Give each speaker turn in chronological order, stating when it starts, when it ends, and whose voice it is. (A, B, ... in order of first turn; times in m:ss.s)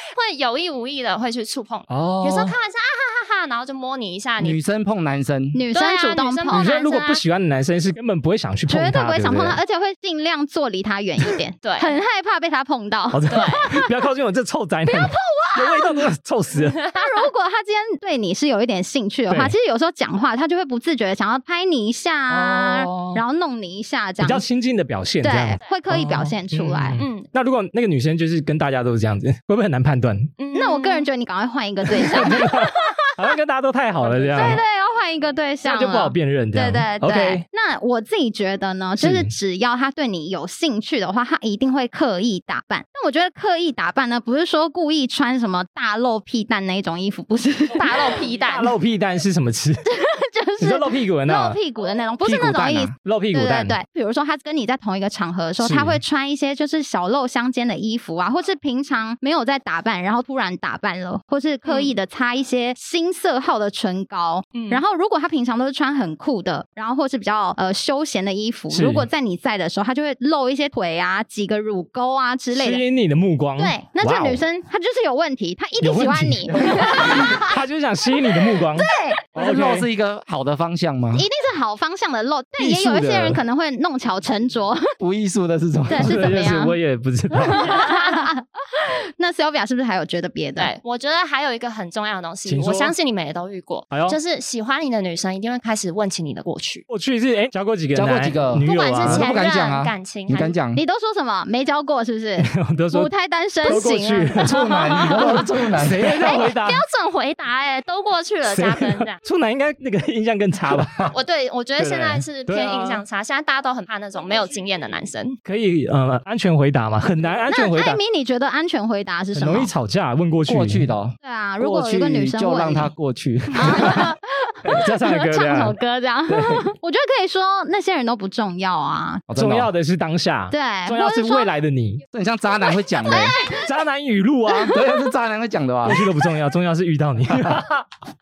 0:00.2-0:04.6 A
0:01.9-0:02.6 B
0:04.4-0:05.6 C
0:05.5-0:06.7 D
0:05.7-0:07.2 A
0:06.5-0:09.6 B
0:08.7-0:13.9 D
0:11.6-0:12.0 A
0:13.1-0:16.9 B
0:13.3-0:13.7 A
0:14.9-0:16.1 D
0:16.8-0:17.3 A
0:16.9-0:24.4 D
0:19.3-0:19.6 B
0:22.3-0:23.2 B
0:24.2-0:30.3 B
0:25.2-0:27.0 D
0:27.0-0:27.3 A
0:30.4-0:31.1 A
0:30.5-0:33.3 D
0:31.9-0:34.6 B
0:34.0-0:34.6 A
0:34.3-0:48.2 D
0:35.6-0:37.4 B
0:39.0-0:39.3 B
0:47.7-0:48.7 A
0:48.3-0:49.9 B
0:49.9-1:12.8 D
0:50.6-0:51.6 B
0:52.3-0:53.8 B
0:55.6-0:56.0 B
1:01.7-1:01.9 A
1:04.5-1:04.8 A
1:08.7-1:09.1 B
1:12.5-1:14.4 B
1:13.6-1:17.6 D
1:15.8-1:19.9 B
1:18.5-1:19.2 D
1:19.4-1:21.3 C
1:21.1-1:24.9 D
1:22.6-1:23.4 B
1:25.0-1:26.4 C
1:25.9-1:26.8 D
1:26.0-1:27.9 B
1:27.3-1:30.7 D
1:30.6-1:36.9 A
1:32.5-1:32.9 B
1:33.9-1:34.2 B
1:36.9-1:39.4 B
1:37.9-1:40.8 C
1:38.6-1:40.6 A
1:40.8-1:45.4 D
1:42.4-1:46.8 B
1:44.4-1:46.2 C
1:46.2-1:49.2 A
1:48.4-1:51.1 B
1:50.7-1:51.1 C
1:51.1-1:55.4 A
1:51.8-1:53.0 B
1:55.4-1:58.0 B
1:57.5-1:59.7 D
1:59.3-2:00.9 B
2:00.4-2:04.1 C
2:01.2-2:02.9 D
2:03.5-2:09.2 D
2:04.8-2:05.8 B
2:06.3-2:06.7 C
2:09.3-2:09.7 C
2:09.4-2:12.0 B
2:10.5-2:11.5 D
2:12.1-2:13.4 C
2:13.1-2:13.7 D
2:13.4-2:14.8 B
2:14.6-2:16.1 C
2:15.8-2:17.8 B
2:17.3-2:17.6 C